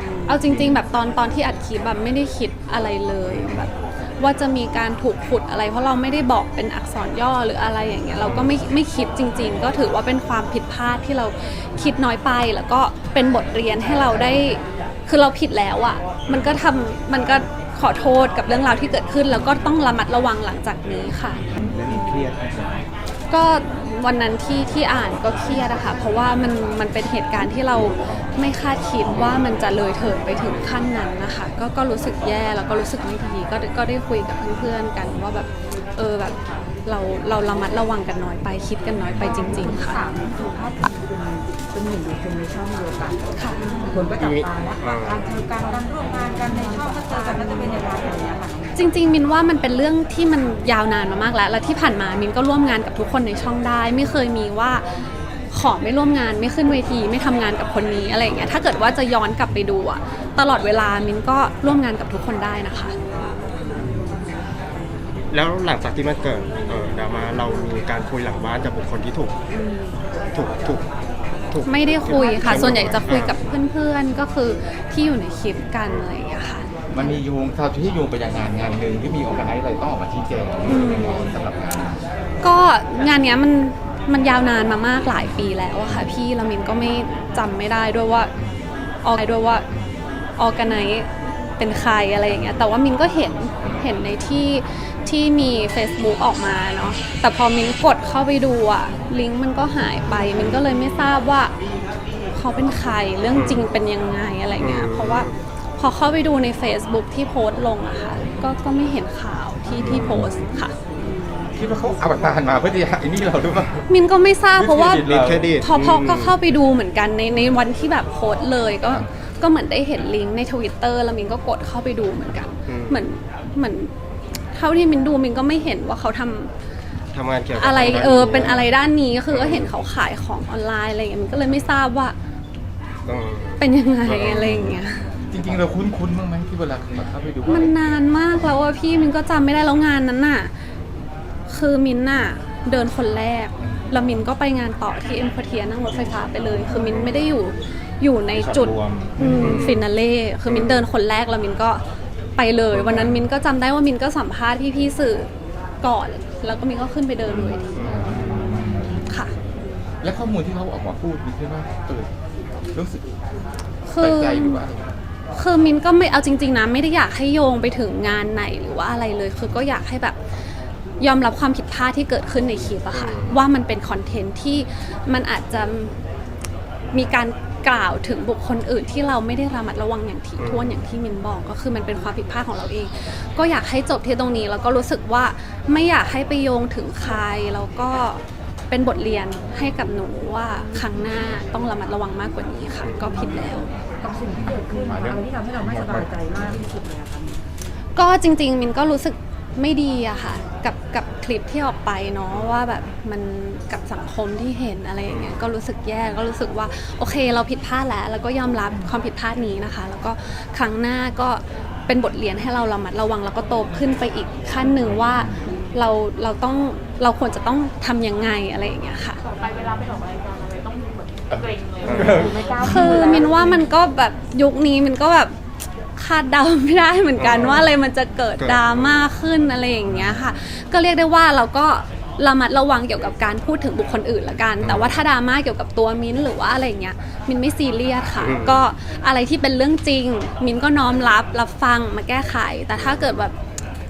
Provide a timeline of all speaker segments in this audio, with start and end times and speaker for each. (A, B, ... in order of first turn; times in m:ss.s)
0:00.3-0:21.4 A
0:08.2-0:08.5 B
0:21.6-0:22.6 C
0:23.3-0:40.0 A
0:39.4-0:48.8 D
0:43.4-0:43.7 A
0:44.2-0:45.3 B
0:46.8-0:47.7 A
0:48.8-0:54.9 A
0:55.5-1:03.0 A
1:05.3-1:09.4 B
1:10.3-1:10.9 B
1:11.5-1:13.3 B
1:11.6-1:16.7 A
1:16.9-1:22.0 E
1:20.7-1:21.3 A
1:22.4-1:28.3 A
1:29.0-1:29.6 A
1:30.4-1:31.1 A
1:31.6-1:41.5 A
1:42.3-1:50.8 A
1:43.3-1:43.6 B
1:44.6-1:45.3 B
1:49.8-1:50.2 B
1:51.6-1:53.9 E
1:53.9-1:55.1 A
1:54.6-1:55.6 E
1:55.0-1:56.4 B
1:55.6-2:03.9 A
2:02.7-2:03.0 B
2:04.5-2:06.5 A
2:07.1-2:08.7 B
2:07.5-2:12.2 A
2:09.3-2:09.7 B
2:13.0-2:14.8 B
2:13.6-2:15.1 A
2:15.3-2:17.7 E
2:17.5-2:20.5 A
2:21.5-2:31.8 A
2:28.3-2:29.3 C
2:29.2-2:29.6 E
2:29.3-2:29.8 B
2:32.4-2:35.3 A
2:35.8-2:37.8 A
2:37.3-2:38.1 B
2:37.9-2:38.7 E
2:38.0-2:39.0 C
2:39.1-2:39.3 A
2:40.0-2:42.1 E
2:42.7-2:43.1 E
2:43.9-2:44.6 A
2:44.0-2:44.9 E
2:45.3-2:50.2 A
2:51.0-2:56.0 A
2:52.9-2:53.4 B
2:56.9-3:13.7 A
3:00.4-3:00.8 B
3:14.0-3:17.4 D
3:14.4-3:16.4 C
3:18.0-3:39.2 A
3:25.1-3:25.4 B
3:39.2-3:42.2 F
3:41.3-3:43.0 E
3:41.8-3:42.2 B
3:42.2-3:43.5 D
3:42.6-3:45.3 A
3:46.0-4:03.3 A
3:47.2-3:47.7 B
3:48.4-3:48.8 B
3:54.6-3:55.0 B
3:58.2-3:58.7 B